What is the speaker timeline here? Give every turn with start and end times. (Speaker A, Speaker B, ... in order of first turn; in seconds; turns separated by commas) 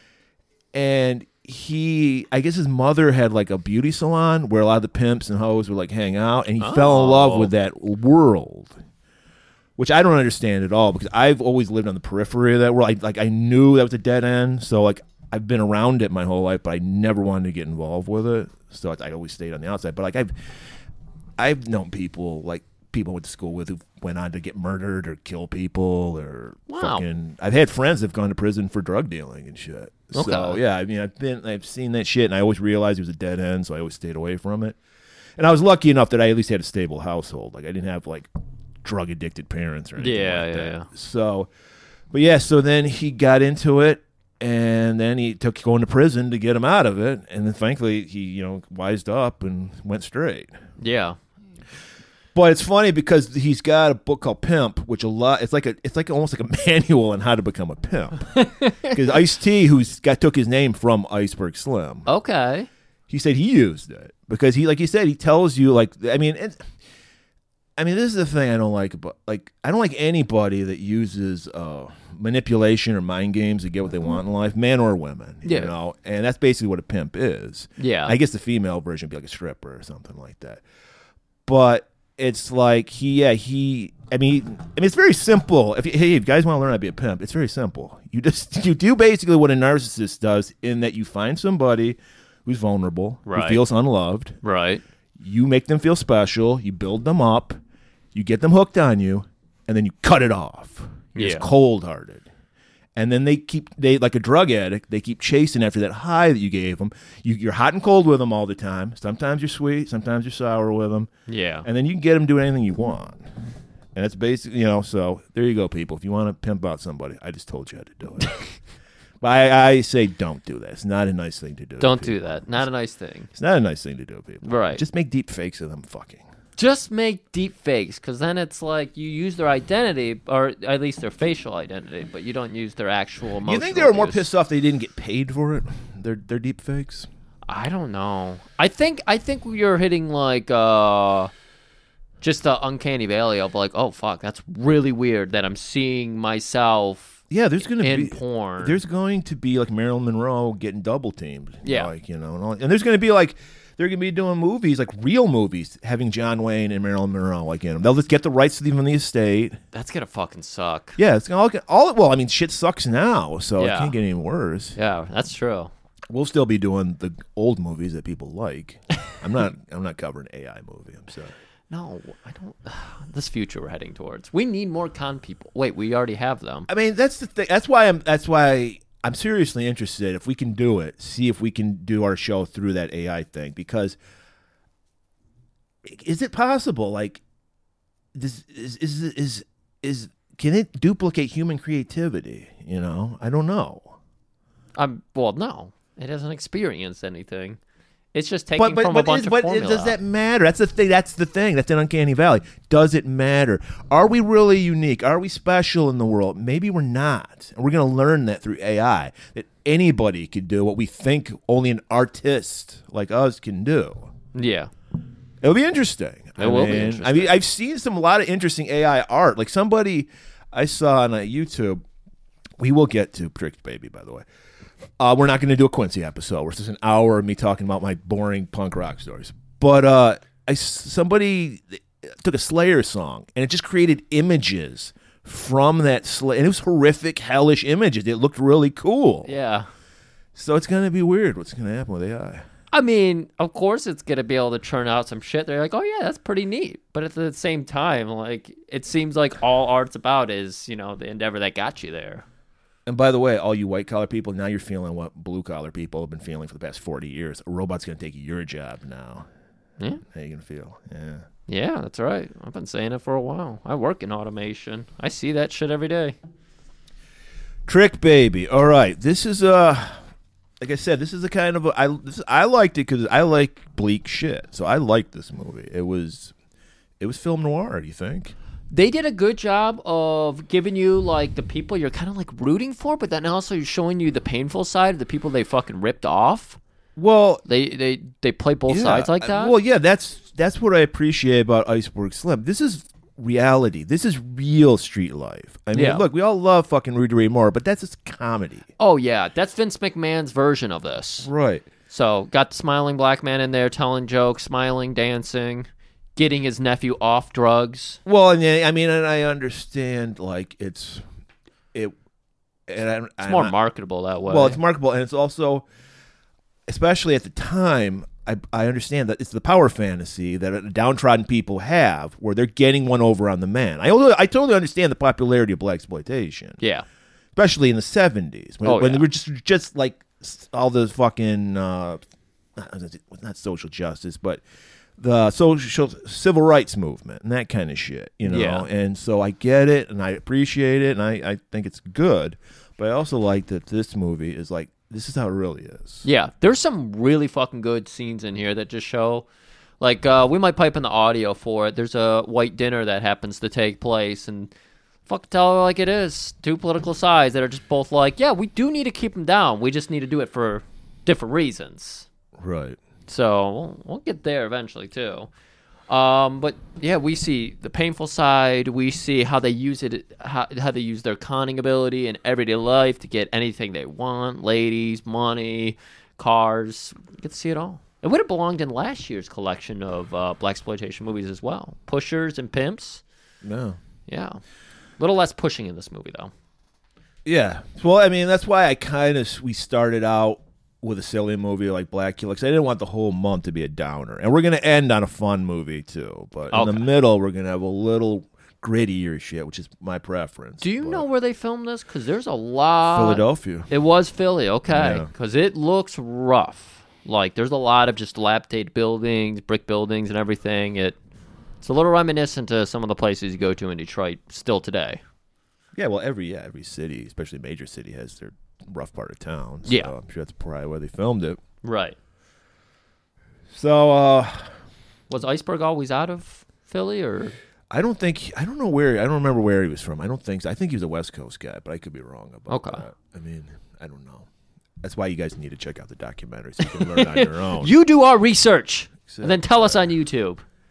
Speaker A: 0.7-8.8, Speaker B: 6.6-7.5, Speaker A: 9.8-20.3, Speaker A: 21.4-34.8, Speaker B: 26.7-27.0, Speaker B: 30.1-30.6, Speaker A: 35.4-38.3, Speaker A: 38.8-41.5, Speaker B: 40.0-40.9, Speaker A: 42.1-50.5, Speaker B: 50.8-51.2, Speaker A: 52.3-62.1, Speaker B: 58.4-58.9, Speaker B: 62.1-62.7, Speaker A: 63.1-66.7, Speaker A: 67.8-80.6, Speaker B: 75.4-75.7, Speaker B: 77.8-78.1, Speaker A: 81.5-94.3, Speaker B: 93.3-93.6, Speaker B: 94.4-94.8, Speaker A: 95.2-97.6, Speaker A: 98.1-102.2, Speaker B: 101.1-101.5, Speaker A: 103.0-111.1, Speaker B: 111.3-111.7, Speaker A: 111.6-113.3, Speaker A: 113.9-118.5, Speaker A: 119.2-122.6, Speaker B: 121.8-123.3, Speaker A: 123.3-126.2, Speaker B: 124.4-124.8, Speaker B: 126.6-134.2, Speaker A: 133.4-137.1, Speaker B: 137.5-141.3, Speaker B: 142.2-148.8, Speaker A: 147.3-159.6, Speaker B: 151.6-151.9, Speaker B: 159.7-161.0, Speaker A: 161.0-164.8, Speaker B: 163.6-163.9, Speaker B: 164.8-165.7, Speaker A: 166.1-171.3, Speaker B: 171.7-176.7, Speaker A: 176.7-184.0, Speaker A: 185.8-187.2, Speaker A: 188.1-193.9, Speaker B: 194.8-197.6, Speaker B: 198.1-199.9, Speaker A: 198.6-214.1, Speaker B: 214.3-214.7, Speaker A: 215.4-221.8, Speaker B: 216.4-217.4, Speaker A: 222.6-224.2, Speaker A: 225.0-239.3, Speaker B: 239.2-239.7, Speaker A: 240.3-242.4, Speaker B: 242.7-252.2, Speaker A: 252.8-259.3, Speaker A: 260.1-261.2, Speaker B: 261.5-266.1, Speaker A: 267.7-270.0, Speaker A: 270.6-276.3, Speaker A: 277.0-278.3, Speaker B: 278.7-286.6, Speaker A: 286.9-287.4, Speaker B: 287.4-289.5, Speaker A: 288.7-298.7, Speaker B: 295.7-296.0, Speaker B: 298.8-301.3, Speaker A: 301.2-301.6, Speaker B: 301.9-308.0, Speaker A: 308.1-311.0, Speaker A: 312.7-313.5, Speaker B: 313.2-314.6, Speaker A: 314.3-315.6, Speaker A: 316.7-326.6, Speaker B: 326.6-326.8, Speaker A: 327.4-332.0, Speaker B: 328.6-329.0, Speaker A: 332.6-334.4, Speaker A: 335.0-346.0, Speaker B: 338.2-338.6, Speaker B: 346.0-349.2, Speaker B: 349.8-354.5, Speaker B: 355.1-362.1, Speaker A: 362.4-362.8, Speaker B: 363.1-365.3, Speaker B: 365.9-383.0, Speaker A: 383.4-383.8, Speaker B: 384.1-384.4, Speaker B: 385.0-386.3, Speaker A: 387.2-401.0, Speaker B: 396.5-396.9, Speaker B: 400.6-410.9, Speaker A: 402.8-403.7, Speaker A: 404.7-405.1, Speaker B: 411.6-415.0, Speaker A: 415.8-421.4, Speaker B: 419.6-419.9, Speaker B: 421.6-421.9, Speaker A: 423.5-424.5, Speaker B: 425.1-427.3, Speaker A: 427.7-434.3, Speaker B: 432.5-432.8, Speaker A: 434.8-437.7, Speaker B: 436.6-440.4, Speaker A: 439.1-439.9